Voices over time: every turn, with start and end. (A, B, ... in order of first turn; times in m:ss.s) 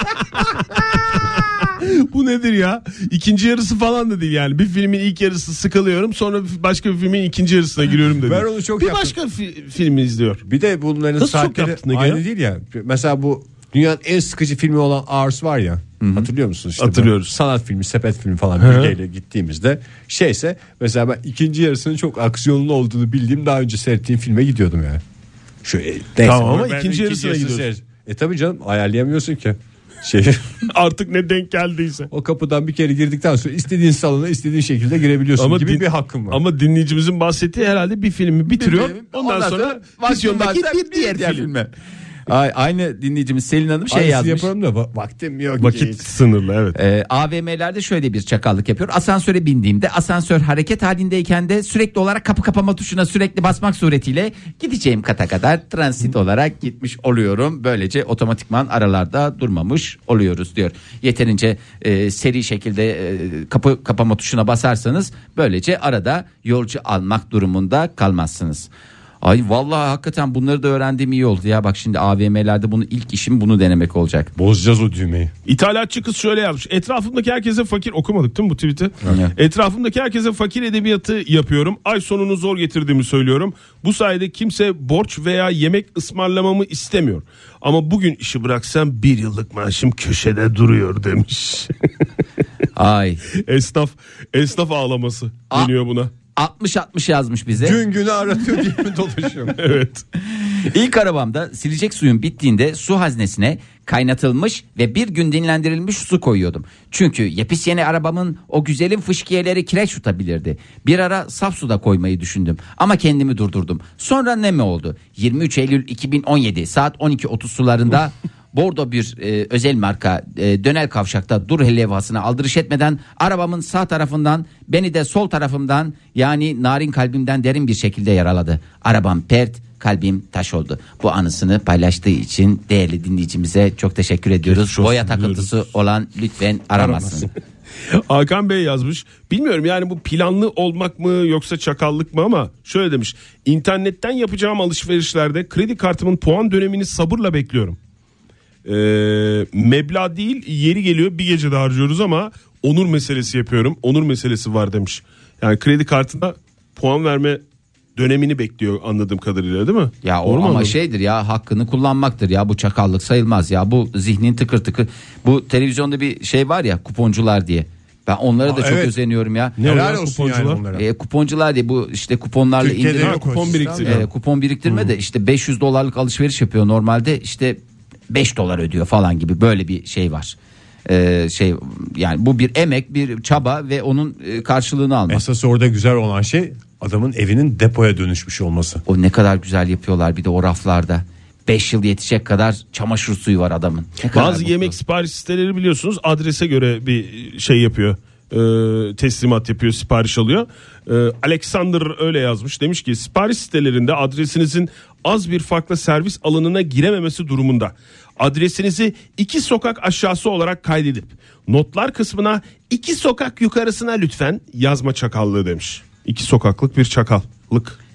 0:00.4-0:10.4 A
0:08.2-0:09.2 B
0:10.4-0:25.0 B
0:11.2-0:12.2 A
0:16.0-0:16.3 C
0:16.8-0:17.4 A
0:18.6-0:18.9 A
0:25.6-0:30.6 B
0:26.2-0:27.7 A
0:30.7-0:32.1 A
0:32.1-0:36.4 B
0:35.4-0:41.5 A
0:38.6-0:41.7 C
0:42.3-0:44.5 C
0:43.9-0:46.0 B
0:45.6-0:46.8 A
0:46.7-1:08.7 C
1:09.2-1:14.3 C
1:14.4-1:15.3 B
1:15.4-1:31.7 A
1:19.1-1:19.4 C
1:32.8-1:33.2 C
1:33.3-1:36.1 A
1:36.4-1:37.8 C
1:37.6-1:39.6 B
1:39.5-1:40.0 A
1:40.2-2:17.3 C
2:14.4-2:15.5 A
2:16.8-2:17.2 B
2:17.9-2:27.8 A
2:28.6-2:37.4 A
2:38.0-2:40.8 A
2:40.0-2:49.6 C
2:48.4-2:49.0 B
2:49.6-2:50.8 B
2:49.6-2:50.6 A
2:50.7-3:05.2 C
2:52.6-2:54.0 B
2:53.0-2:54.0 A
3:05.1-3:08.8 B
3:08.9-3:14.8 C
3:14.1-3:37.8 A